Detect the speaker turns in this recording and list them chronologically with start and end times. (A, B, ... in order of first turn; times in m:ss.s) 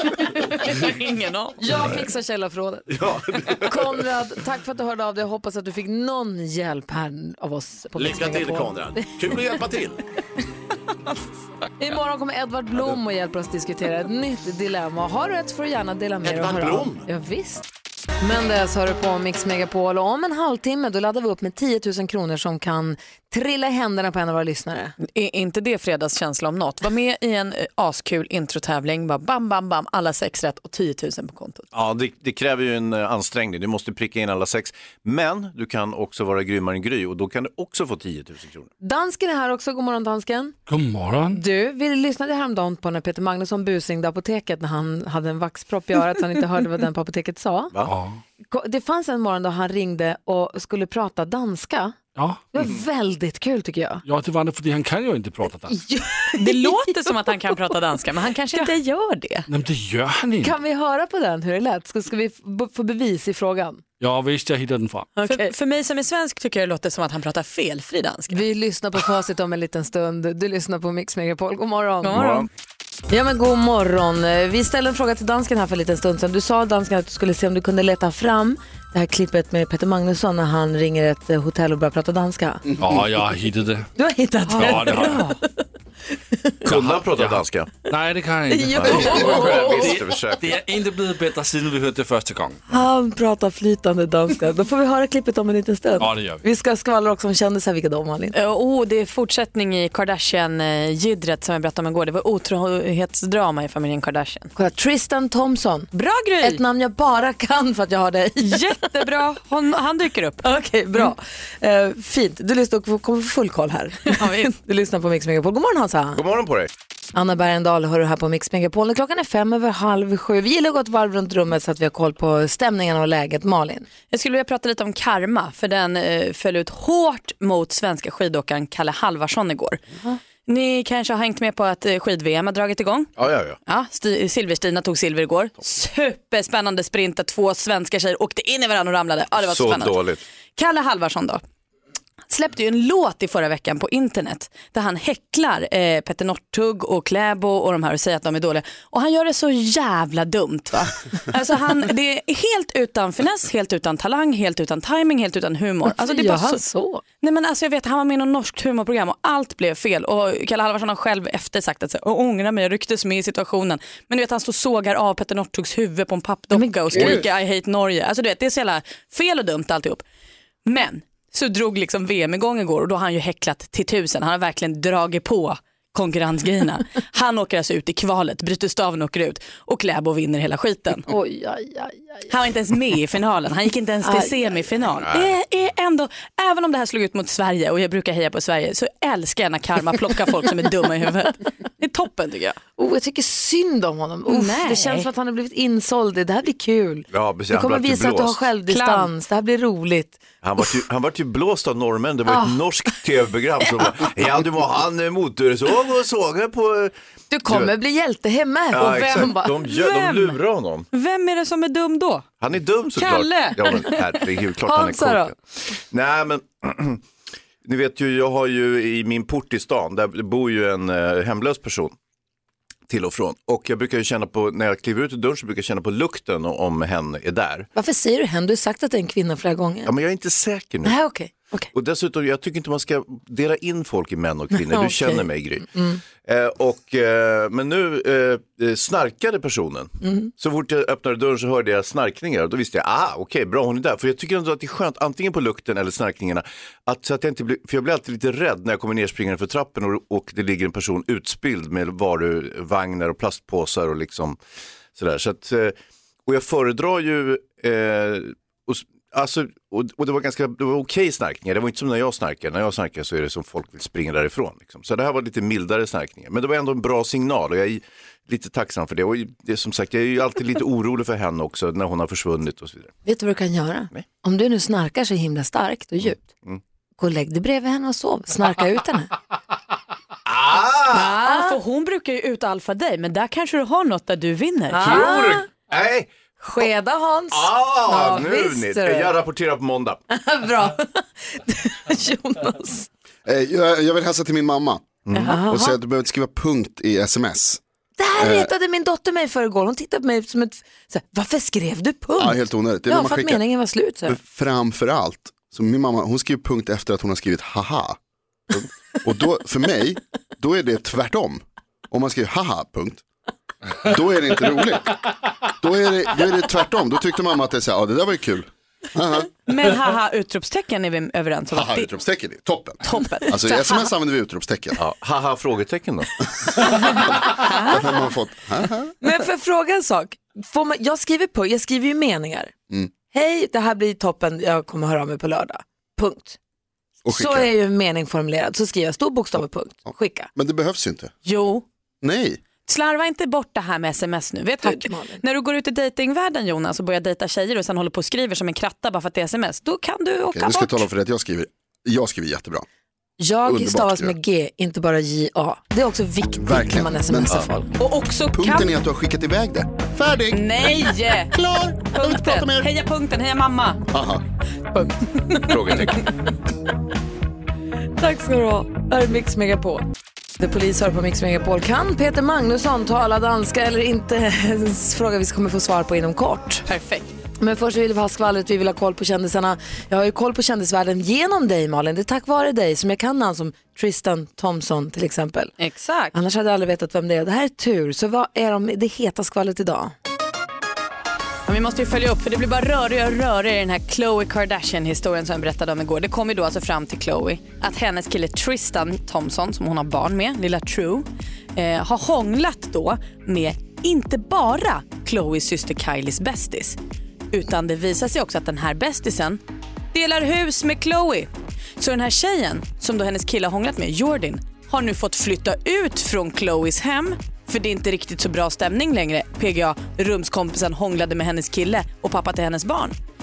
0:00.2-0:01.6 A
0:01.6-0:02.8 B
0:02.9-0:03.6 C
0:03.6-0:09.1 B
0:08.0-0:10.0 C
0:11.8-0:17.6 B
0:16.2-0:17.0 C
0:18.2-0:24.9 B
0:25.0-0:31.7 A
0:31.7-0:38.7 D
0:38.8-0:40.6 B
0:40.7-0:41.4 E
0:41.3-0:47.7 B
0:47.8-0:48.2 E
0:48.5-0:52.0 B
0:52.2-0:52.4 E
0:52.5-0:54.0 B
0:54.0-0:55.8 E
0:55.7-0:56.9 B
0:56.4-0:59.5 A
0:59.5-1:00.5 E
1:00.4-1:03.8 B
1:04.0-1:05.1 E
1:05.1-1:05.5 B
1:05.2-1:08.4 A
1:08.3-1:12.2 B
1:12.0-1:12.5 A
1:12.1-1:12.5 D
1:13.1-1:22.6 B
1:22.8-1:23.9 E
1:24.0-1:25.6 B
1:24.5-1:25.2 E
1:24.5-1:25.3 A
1:26.3-1:26.7 B
1:26.7-1:27.7 D
1:26.7-1:32.6 E
1:28.5-1:30.0 B
1:28.7-1:30.5 D
1:32.7-1:38.3 B
1:36.0-1:36.4 E
1:38.3-1:44.5 A
1:44.5-1:45.9 B
1:45.9-1:46.6 A
1:46.4-1:49.0 B
1:48.4-1:50.4 A
1:50.4-1:56.2 B
1:54.1-1:54.5 A
1:56.2-1:56.7 D
1:57.1-2:03.9 B
2:04.1-2:09.8 A
2:10.4-2:13.1 A
2:13.2-2:13.6 D
2:13.6-2:20.0 A
2:19.4-2:20.2 D
2:20.6-2:21.4 A
2:22.3-2:36.6 A
2:35.8-2:37.0 B
2:37.2-2:50.0 A
2:46.5-2:47.2 B
2:50.6-3:01.1 A
3:01.1-3:02.3 B
3:02.3-3:12.6 A
3:04.0-3:04.6 B
3:05.0-3:05.3 D
3:12.8-3:20.2 B
3:14.3-3:15.1 A
3:17.1-3:18.4 D
3:18.7-3:19.1 A
3:20.4-3:26.9 D
3:22.3-3:22.5 B
3:27.3-3:29.6 B
3:28.7-3:30.9 D
3:29.6-3:30.4 A
3:30.9-3:32.2 A
3:32.4-3:37.0 D
3:32.9-3:34.1 A
3:34.6-3:35.3 B
3:37.6-3:42.0 D
3:42.9-3:47.7 D
3:47.7-3:49.9 B
3:49.8-3:51.0 D
3:50.8-3:51.7 B
3:51.7-3:55.7 D
3:54.5-3:56.0 B
3:56.2-4:14.4 D
4:00.0-4:00.3 B
4:15.0-4:32.9 D
4:33.0-4:36.3 B
4:36.0-4:36.6 D
4:37.0-4:39.1 B
4:40.2-4:41.1 D
4:40.9-4:41.6 B
4:41.0-4:45.2 A
4:44.7-4:45.5 B
4:44.8-4:46.1 D
4:46.4-4:49.1 B
4:47.3-4:50.0 D
4:50.1-4:52.9 B
4:53.2-4:57.6 F
4:55.1-4:55.4 D
4:55.2-4:55.8 B
4:58.0-5:04.2 B
4:58.2-4:58.5 F
5:02.2-5:03.4 F
5:04.1-5:08.0 F
5:09.0-5:13.0 F
5:13.8-5:19.3 F
5:19.5-5:21.9 A
5:21.5-5:24.8 F
5:22.8-5:23.9 A
5:24.8-5:26.1 D
5:26.9-5:28.9 F
5:27.0-5:27.8 B
5:29.0-5:32.5 B
5:33.1-5:36.4 B
5:37.0-5:37.5 F
5:37.1-5:40.3 B
5:40.3-5:41.1 F
5:41.2-5:41.6 A
5:42.0-5:42.4 F
5:42.7-5:50.8 A
5:44.6-5:45.2 B
5:50.3-5:52.6 F
5:53.2-5:57.7 B
5:53.4-5:54.2 F
5:56.4-5:57.5 F
5:57.8-5:58.7 A
5:58.3-6:02.7 F
6:00.3-6:01.3 A
6:01.9-6:03.8 A
6:03.9-6:04.2 F
6:05.3-6:06.1 D
6:05.4-6:05.7 A
6:08.0-6:09.8 B
6:10.4-6:16.6 B
6:16.6-6:17.1 A
6:17.4-6:25.5 B
6:25.6-6:26.1 A
6:26.1-6:29.9 B
6:31.5-6:46.8 A
6:47.3-6:49.4 A
6:49.9-7:03.0 A